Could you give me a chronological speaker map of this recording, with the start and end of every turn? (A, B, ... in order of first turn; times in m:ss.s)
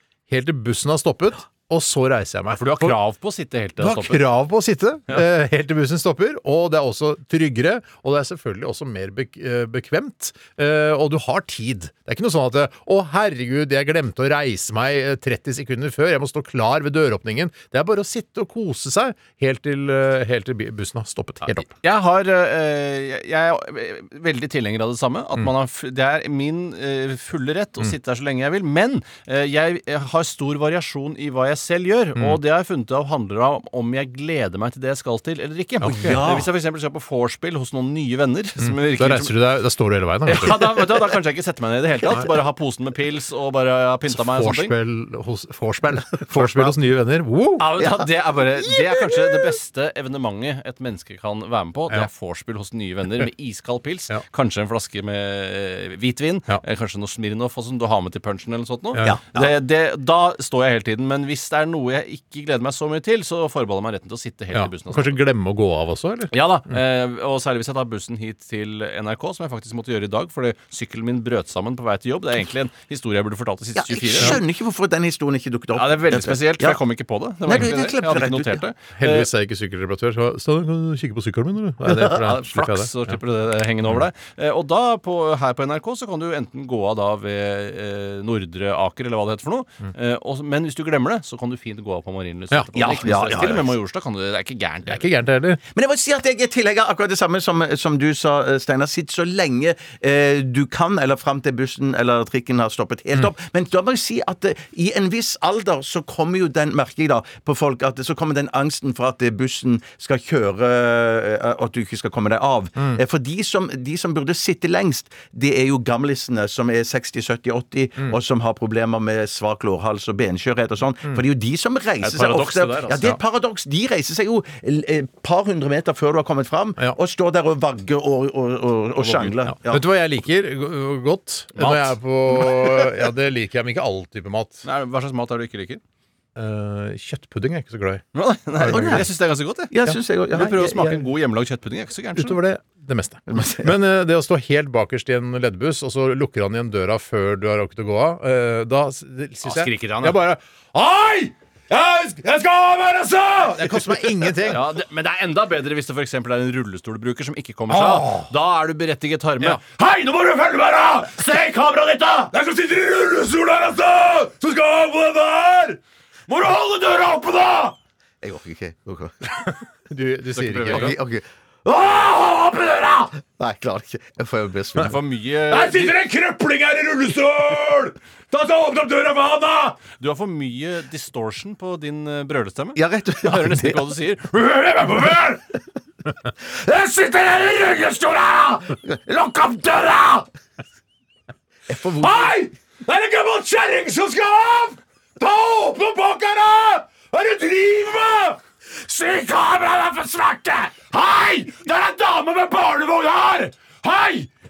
0:00.3-0:03.0 A
0:02.5-0:04.3 B
0:03.8-0:21.7 A
0:21.4-0:39.3 B
0:35.8-0:36.2 A
0:35.8-0:36.5 C
0:38.6-0:40.6 A
0:40.3-0:44.7 B
0:44.1-0:47.7 A
0:46.3-0:46.7 C
0:47.6-1:05.2 B
0:47.8-0:48.1 C
0:48.6-0:49.4 C
0:59.0-0:59.5 C
1:04.5-1:06.7 A
1:06.3-1:14.4 B
1:13.8-1:16.8 C
1:15.7-1:19.3 B
1:17.4-1:18.6 C
1:19.0-1:23.1 A
1:21.9-1:35.1 B
1:32.8-1:33.7 C
1:34.9-1:35.6 A
1:35.7-2:09.8 C
2:02.0-2:03.1 B
2:09.0-2:09.3 B
2:09.5-2:14.6 A
2:11.6-2:11.9 B
2:12.4-2:12.9 C
2:14.6-2:15.8 B
2:16.4-2:18.0 A
2:18.1-2:19.7 B
2:18.6-2:19.0 A
2:18.6-2:19.1 C
2:19.7-2:21.0 C
2:20.3-2:22.4 B
2:22.2-2:34.6 A
2:23.3-2:23.7 C
2:29.4-2:30.2 B
2:34.4-2:39.6 B
2:37.7-2:38.3 A
2:39.4-2:41.3 A
2:42.3-2:45.8 A
2:46.4-2:46.7 A
2:48.2-2:49.5 C
2:49.9-2:51.0 A
2:50.3-2:51.0 B
2:50.6-2:51.2 C
2:53.2-2:55.0 C
2:54.8-2:56.0 B
2:55.5-2:59.8 A
2:59.9-3:04.5 B
3:02.7-3:03.8 C
3:11.7-3:12.4 C
3:12.1-3:14.6 A
3:16.8-3:18.3 A
3:20.9-3:21.5 A